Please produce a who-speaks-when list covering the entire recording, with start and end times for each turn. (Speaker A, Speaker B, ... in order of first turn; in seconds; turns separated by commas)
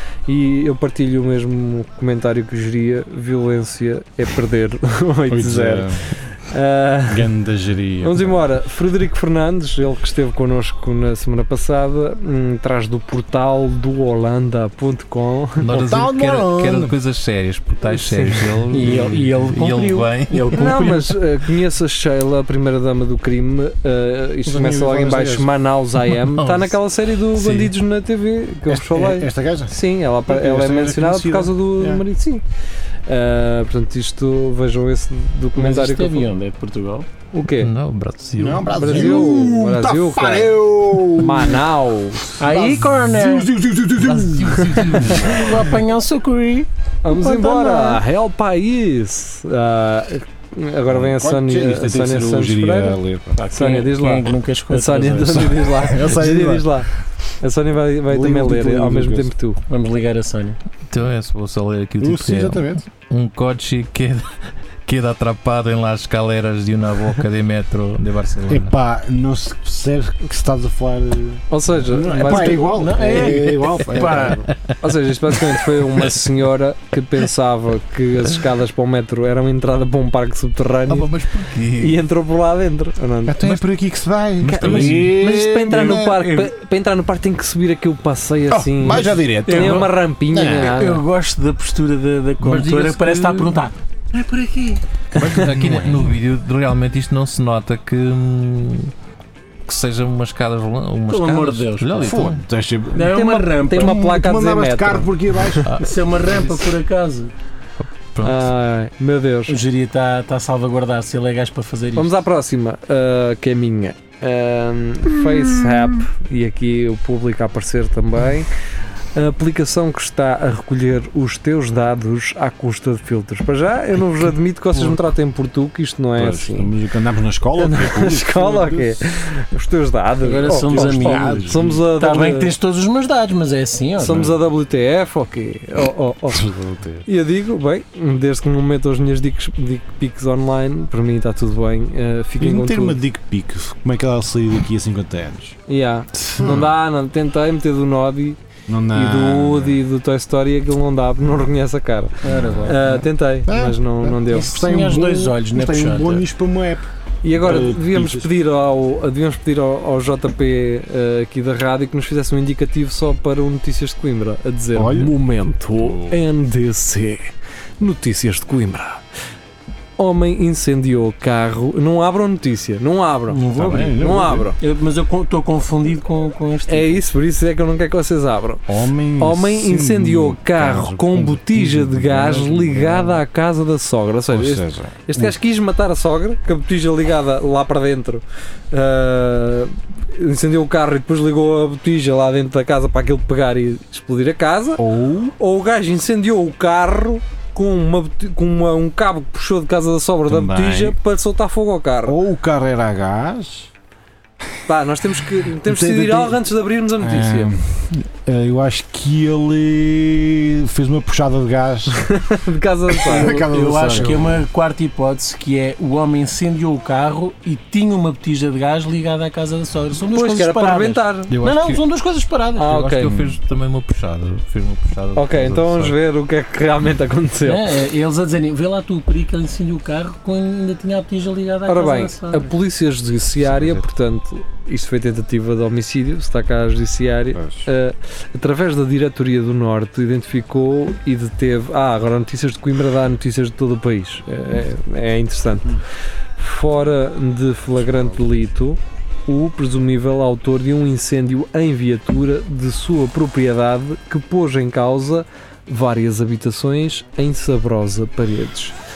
Speaker A: 0.3-7.3, Speaker B: 5.3-6.1, Speaker B: 7.1-8.4, Speaker A: 8.0-15.6, Speaker C: 15.6-21.1, Speaker B: 15.7-16.9, Speaker A: 17.8-18.6, Speaker D: 18.7-21.0, Speaker A: 20.5-32.4, Speaker B: 24.4-25.5, Speaker C: 26.1-26.7, Speaker C: 27.3-27.7, Speaker B: 28.7-32.0, Speaker A: 33.0-36.3, Speaker D: 35.5-37.1, Speaker A: 37.3-37.7, Speaker C: 37.6-39.0, Speaker B: 38.4-41.7, Speaker A: 38.7-40.5, Speaker A: 41.1-42.3, Speaker D: 42.4-48.0, Speaker B: 42.4-45.7, Speaker A: 47.0-53.0, Speaker B: 50.9-53.4, Speaker D: 53.4-55.7, Speaker A: 53.5-56.9, Speaker B: 55.4-56.9, Speaker A: 57.4-59.6, Speaker B: 58.1-59.3, Speaker D: 59.7-60.6, Speaker C: 60.9-68.7, Speaker B: 62.0-62.8, Speaker B: 68.5-74.5, Speaker A: 71.5-72.7, Speaker D: 72.3-74.5, Speaker A: 74.8-81.1, Speaker C: 80.9-82.0, Speaker A: 81.8-83.5, Speaker B: 83.3-86.5, Speaker A: 84.4-91.0, Speaker C: 84.5-85.1, Speaker B: 88.5-90.8, Speaker D: 89.5-89.9, Speaker D: 90.5-93.8, Speaker C: 92.4-93.7, Speaker C: 95.2-98.9, Speaker A: 95.2-95.4, Speaker B: 95.2-96.2, Speaker C: 99.7-102.4, Speaker D: 101.1-102.2, Speaker B: 102.0-103.1, Speaker D: 102.9-104.0, Speaker A: 103.0-105.6, Speaker B: 103.7-105.7, Speaker D: 105.7-107.3, Speaker C: 105.7-106.7, Speaker C: 107.8-108.5, Speaker A: 108.2-109.5, Speaker D: 109.5-112.1, Speaker A: 112.0-118.5, Speaker A: 119.1-126.7, Speaker B: 126.2-129.0, Speaker A: 127.6-132.5, Speaker D: 130.2-134.3, Speaker B: 130.4-131.8, Speaker A: 134.0-136.5, Speaker B: 136.3-137.0, Speaker A: 137.1-143.0, Speaker B: 142.4-145.6, Speaker A: 145.7-148.4, Speaker B: 146.3-146.7, Speaker B: 148.7-149.8, Speaker A: 148.9-154.6, Speaker D: 152.2-153.0, Speaker B: 152.2-158.3, Speaker D: 154.3-156.2, Speaker A: 157.2-167.3, Speaker B: 164.7-165.1, Speaker B: 165.8-166.1, Speaker A: 167.8-169.0, Speaker A: 170.0-174.6, Speaker D: 173.3-174.0, Speaker B: 173.5-174.5, Speaker D: 174.6-177.0, Speaker A: 176.7-194.8, Speaker B: 178.7-183.2, Speaker B: 184.3-185.3, Speaker B: 194.8-195.3, Speaker A: 195.4-202.2, Speaker B: 200.3-201.0, Speaker B: 202.1-203.7, Speaker A: 204.7-207.5, Speaker B: 205.6-206.4, Speaker B: 207.0-212.1, Speaker A: 212.0-213.3, Speaker B: 213.0-214.2, Speaker D: 213.1-222.8, Speaker C: 213.9-214.4, Speaker A: 220.1-221.3, Speaker C: 221.3-221.8, Speaker A: 222.6-223.3, Speaker C: 222.6-225.9, Speaker A: 225.1-227.7, Speaker D: 227.4-232.5, Speaker A: 231.7-245.8, Speaker B: 233.4-233.8, Speaker B: 237.3-237.6, Speaker A: 246.4-258.7